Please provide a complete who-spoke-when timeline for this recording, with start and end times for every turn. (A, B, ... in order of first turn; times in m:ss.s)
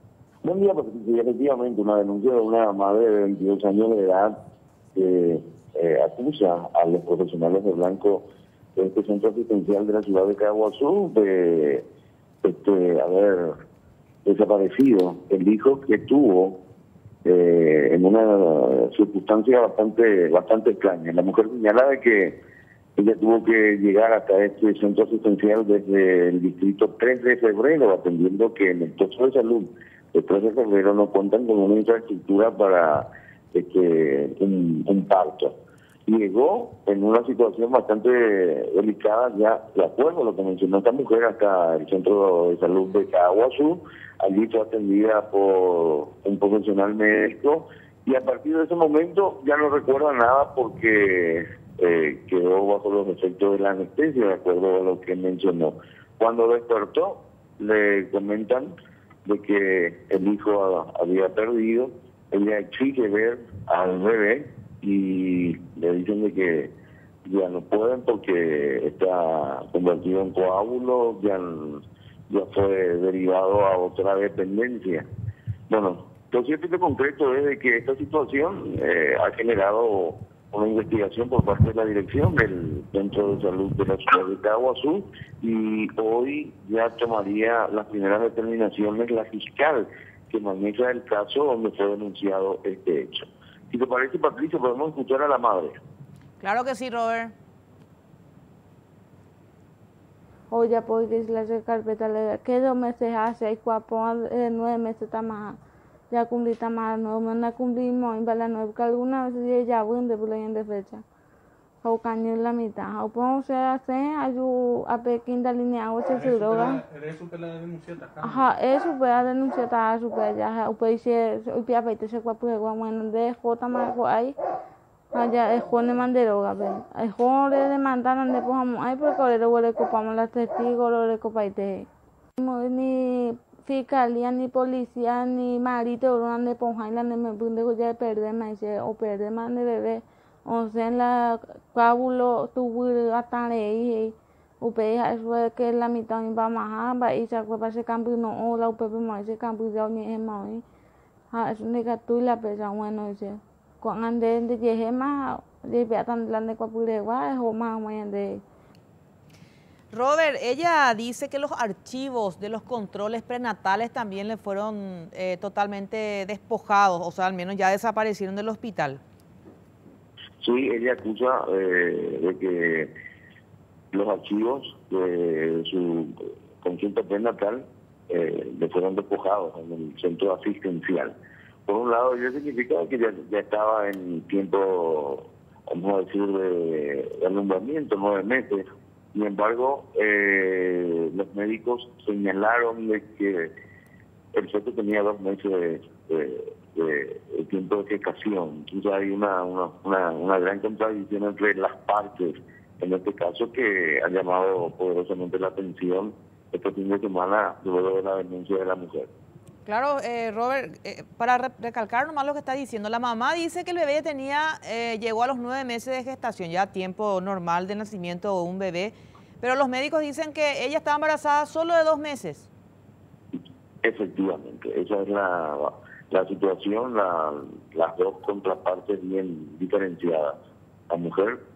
0:00.4-0:04.4 A
0:04.9-0:11.9 A
0:12.4-0:13.6 A
0:14.2-0:16.6 A
0:17.2-0:22.4 A
0:23.0-0:35.6 A
0:36.1-1:06.7 A
1:07.2-1:15.1 A
1:15.7-1:35.8 A
1:36.4-1:37.3 B
1:40.5-1:45.6 C
1:46.1-1:51.0 C
1:51.8-1:56.8 C
1:56.1-1:58.5 D
1:58.2-2:04.4 C
2:05.1-2:11.9 C
2:12.4-2:30.6 C
2:31.3-2:38.4 C
2:39.9-2:49.0 B
2:50.4-2:52.9 A
2:53.9-3:01.2 A
3:01.7-3:13.5 A
3:14.3-3:29.1 A
3:29.7-3:42.5 B
3:43.3-3:50.4 A
3:50.9-3:51.4 A